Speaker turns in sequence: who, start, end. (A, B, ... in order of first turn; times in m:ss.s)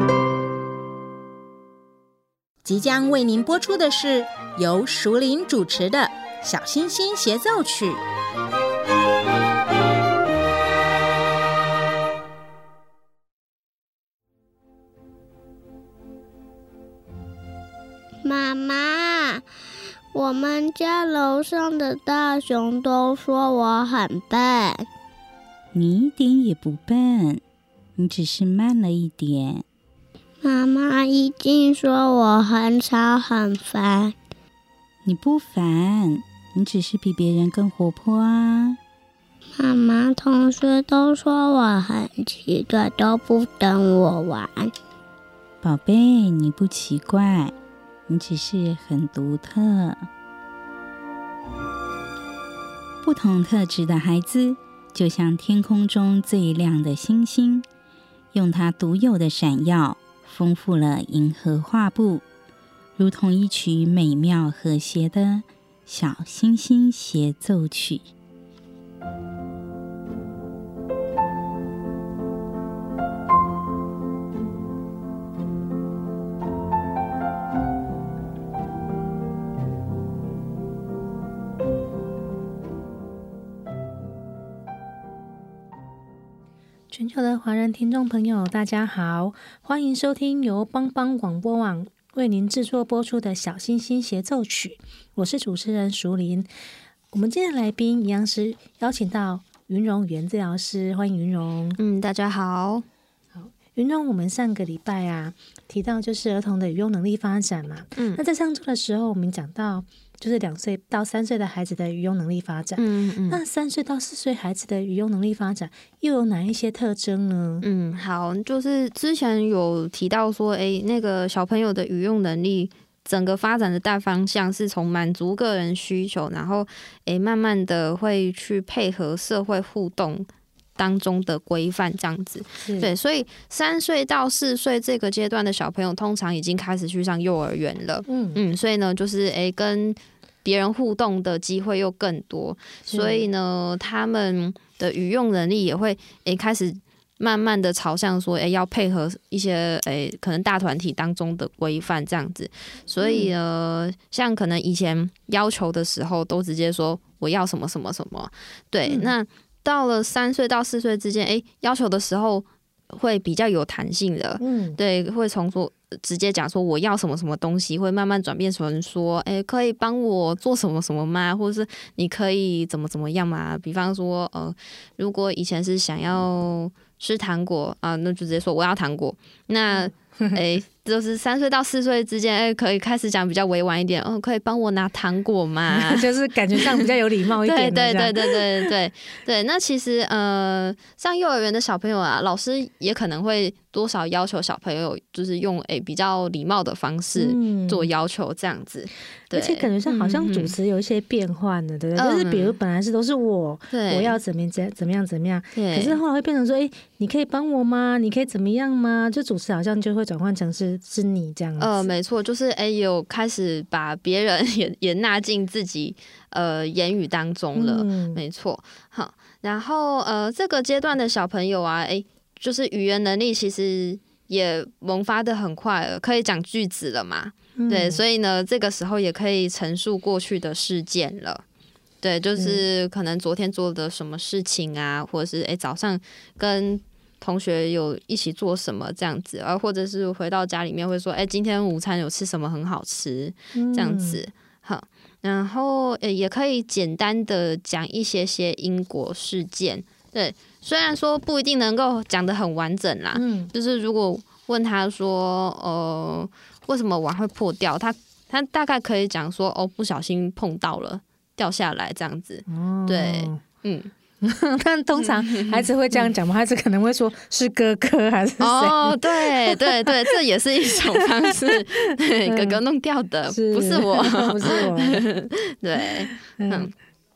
0:02.7-0:08.0 A
0:18.2-0:19.4 B
0:20.1-0:24.9 B
0:25.7-0:27.4 C
0:28.0-0:29.6 C
0:30.4-0:34.1 B
0:35.0-0:38.8 C
0:39.6-0:44.7 B
0:45.6-0:47.5 C
0:48.1-0:50.1 C
0:53.0-0:57.6 C
0:58.3-1:02.2 C
1:03.0-1:08.1 C
1:26.9-1:36.5 D
1:37.1-1:41.8 D
1:41.8-1:42.8 E
1:43.3-1:57.7 D
1:52.8-1:53.4 E
1:57.6-3:06.8 E
2:12.6-2:12.9 D
2:18.1-2:18.4 D
2:22.9-2:23.2 D
2:33.0-2:33.3 D
2:38.9-2:39.1 D
2:44.4-2:44.8 D
2:59.7-3:00.4 D
3:05.7-3:08.7 D
3:07.4-3:20.5 E
3:17.2-3:17.9 D
3:19.3-3:31.9 D
3:22.0-3:22.6 E
3:23.7-3:24.2 E
3:25.6-3:26.0 E
3:31.6-3:51.4 E
3:37.6-3:38.2 D
3:47.6-3:48.0 D
3:52.0-4:23.9 E
3:52.4-3:52.6 D
4:03.5-4:04.2 D
4:13.1-4:13.5 D
4:22.5-4:23.4 D
4:24.2-4:29.9 D
4:25.0-4:26.1 E
4:28.4-4:36.7 E
4:32.3-4:32.6 D
4:33.3-4:35.0 D
4:36.1-4:36.7 D